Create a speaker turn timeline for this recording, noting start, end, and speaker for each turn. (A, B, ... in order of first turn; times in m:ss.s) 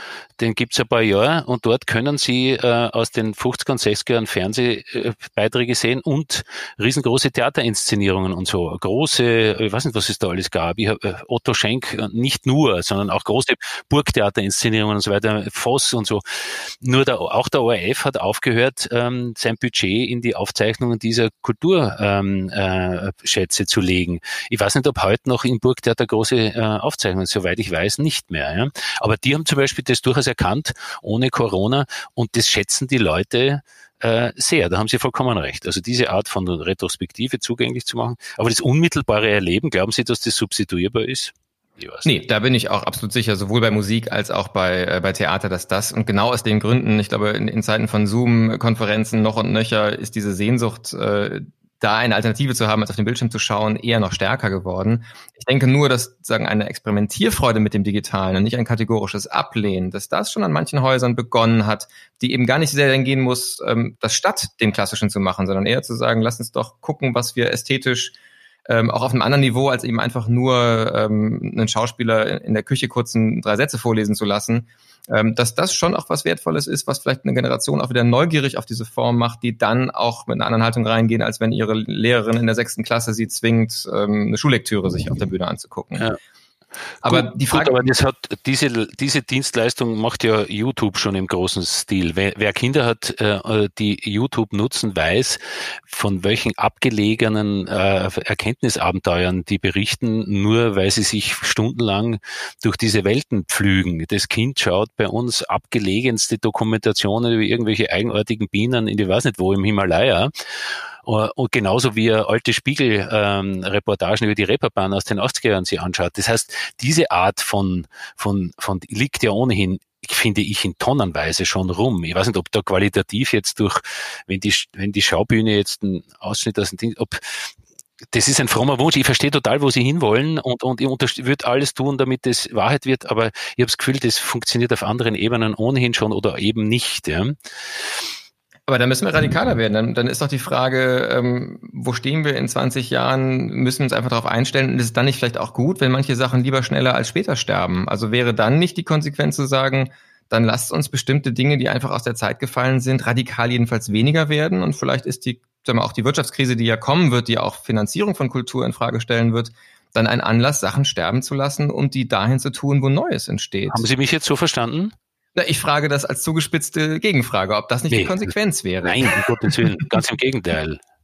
0:00.4-0:42.1 A
0:42.0-1:08.1 B
1:08.7-1:26.1 B
1:27.0-1:27.8 B
1:27.0-2:07.5 A
2:08.1-2:17.4 A
2:18.7-2:43.9 B
2:43.7-2:44.9 A
2:45.4-2:49.8 B
2:47.9-2:48.3 A
2:48.8-2:50.8 A